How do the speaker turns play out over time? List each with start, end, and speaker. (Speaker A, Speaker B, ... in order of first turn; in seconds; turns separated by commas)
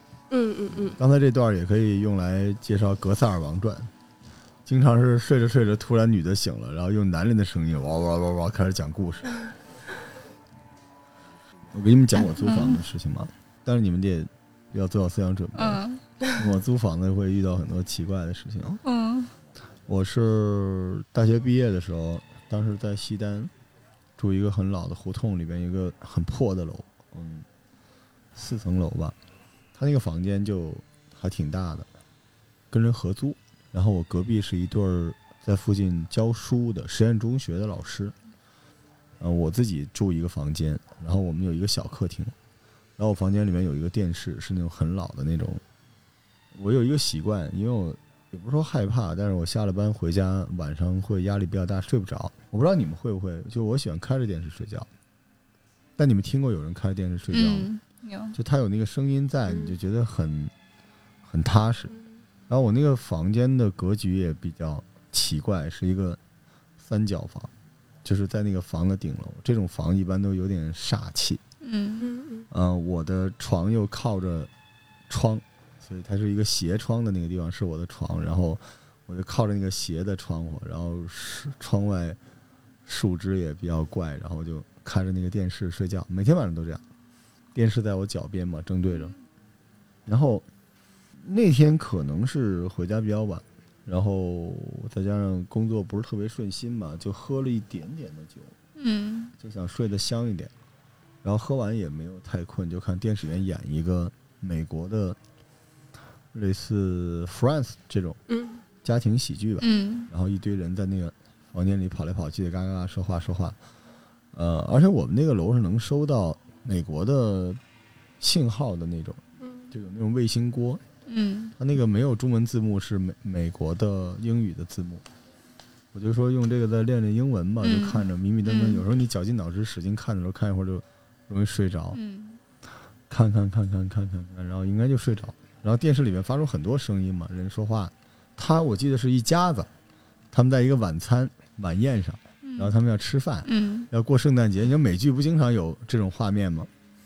Speaker A: 0.3-1.0, Speaker B: 1.0-3.9, Speaker B: 4.7-9.4, Speaker B: 11.7-15.8, Speaker C: 12.3-12.8, Speaker C: 15.6-16.0, Speaker B: 16.4-18.8, Speaker C: 18.8-19.3, Speaker B: 19.9-23.5, Speaker B: 24.2-27.5, Speaker B: 28.4-29.2, Speaker B: 29.8-31.9, Speaker B: 32.7-38.1, Speaker B: 39.2-42.4, Speaker B: 43.0-45.6, Speaker B: 46.5-54.9, Speaker B: 56.0-57.7, Speaker C: 57.3-58.4, Speaker B: 58.3-60.5, Speaker A: 59.5-59.8, Speaker B: 61.2-61.9, Speaker B: 62.5-66.2, Speaker B: 66.8-67.5, Speaker B: 68.0-71.4, Speaker C: 71.6-72.1, Speaker A: 72.0-72.5, Speaker B: 72.5-74.5, Speaker B: 75.1-82.2, Speaker B: 82.9-86.8, Speaker B: 87.5-89.2, Speaker B: 90.1-90.5, Speaker B: 91.2-98.6, Speaker C: 98.8-99.3, Speaker B: 99.4-100.5, Speaker B: 101.2-105.2, Speaker B: 106.3-108.2, Speaker A: 108.3-108.6, Speaker B: 108.8-113.6, Speaker C: 109.6-110.1, Speaker B: 114.3-117.6, Speaker B: 118.2-120.8, Speaker A: 119.4-119.7, Speaker C: 121.1-121.6, Speaker B: 121.6-125.0, Speaker B: 125.9-132.0, Speaker C: 127.6-128.8, Speaker C: 131.9-132.4, Speaker B: 133.1-139.7, Speaker B: 140.3-146.7, Speaker C: 142.4-142.7, Speaker C: 143.4-143.9